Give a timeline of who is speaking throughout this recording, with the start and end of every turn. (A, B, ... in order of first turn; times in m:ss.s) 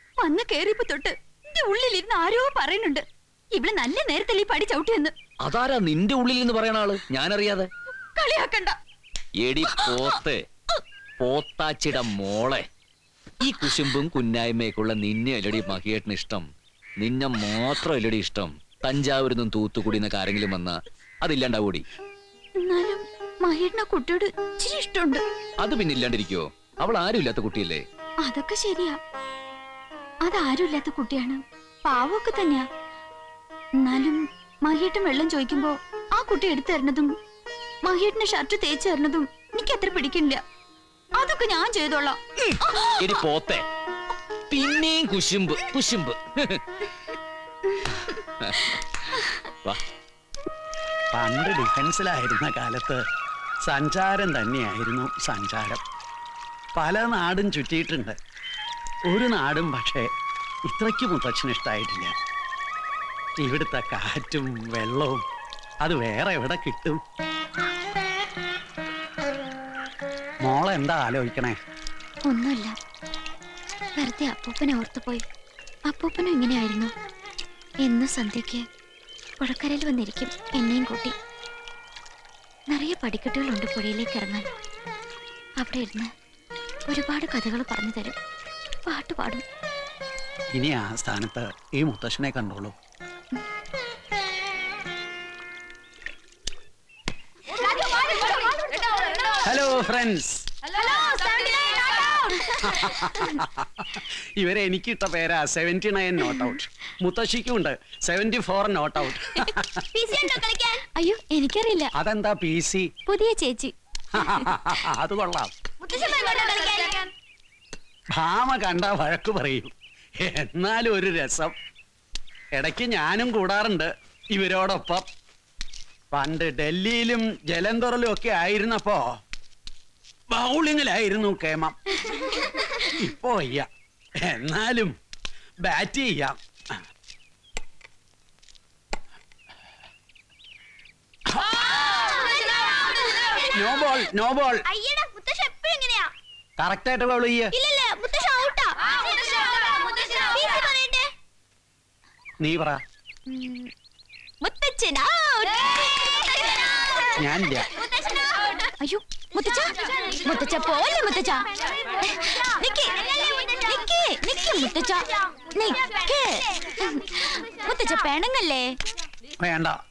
0:00.2-0:03.0 A
0:03.6-0:05.1 A
0:05.4-0:07.7 B
0:08.2-0:08.8 A
0:09.4-0:10.4 B
0:09.7-0:10.1 A
0:11.2-0:12.6 B
0:13.4-0:16.5 B
0:17.0-0:21.8 B
0:22.6-0:25.2 A
0:25.6-0:27.8 B
0:28.2-0:29.0 A
0:30.2-0:32.7 A
0:33.8-0:37.2 A
0:37.8-0:40.4 A
0:41.2-0:43.2 A
0:43.0-0:43.6 B
0:44.5-0:46.6 B
0:47.9-0:48.8 B
0:51.1-0:53.0 C
0:53.7-0:55.8 C
0:56.8-0:58.2 C
0:59.1-1:00.1 C
1:00.7-1:02.1 C
1:03.4-1:05.2 C
1:05.8-1:07.0 C
1:10.4-1:11.6 C
1:12.3-1:12.7 D
1:14.0-1:15.2 D
1:15.9-1:16.9 D
1:17.8-1:18.6 D
1:19.4-1:21.1 D
1:22.7-1:24.5 D
1:25.6-1:26.1 D
1:26.9-1:28.2 D
1:28.9-1:29.4 D
1:30.6-1:32.7 C
1:38.0-1:38.5 D
1:39.4-1:40.5 C
1:40.8-1:42.5 A
1:41.8-1:42.6 D
1:42.6-1:49.8 C
1:50.1-1:51.9 D
1:52.0-1:52.9 C
1:53.1-1:53.7 A
1:53.2-1:53.7 D
1:54.2-1:55.5 C
1:55.9-1:57.0 D
1:58.2-1:59.7 C
2:00.2-2:01.5 C
2:02.6-2:05.0 C
2:06.1-2:09.0 C
2:10.3-2:11.9 C
2:12.8-2:13.7 C
2:14.3-2:14.9 C
2:15.7-2:16.4 C
2:21.3-2:21.7 C
2:21.9-2:23.4 D
2:23.5-2:24.6 C
2:24.7-2:26.1 D
2:26.6-2:27.5 C
2:27.6-2:31.0 D
2:27.6-2:28.7 A
2:29.4-2:29.8 A
2:32.4-2:32.8 C
2:33.3-2:33.7 D
2:34.4-2:37.2 D
2:37.2-2:37.7 C
2:38.8-2:48.7 D
2:49.4-2:49.8 C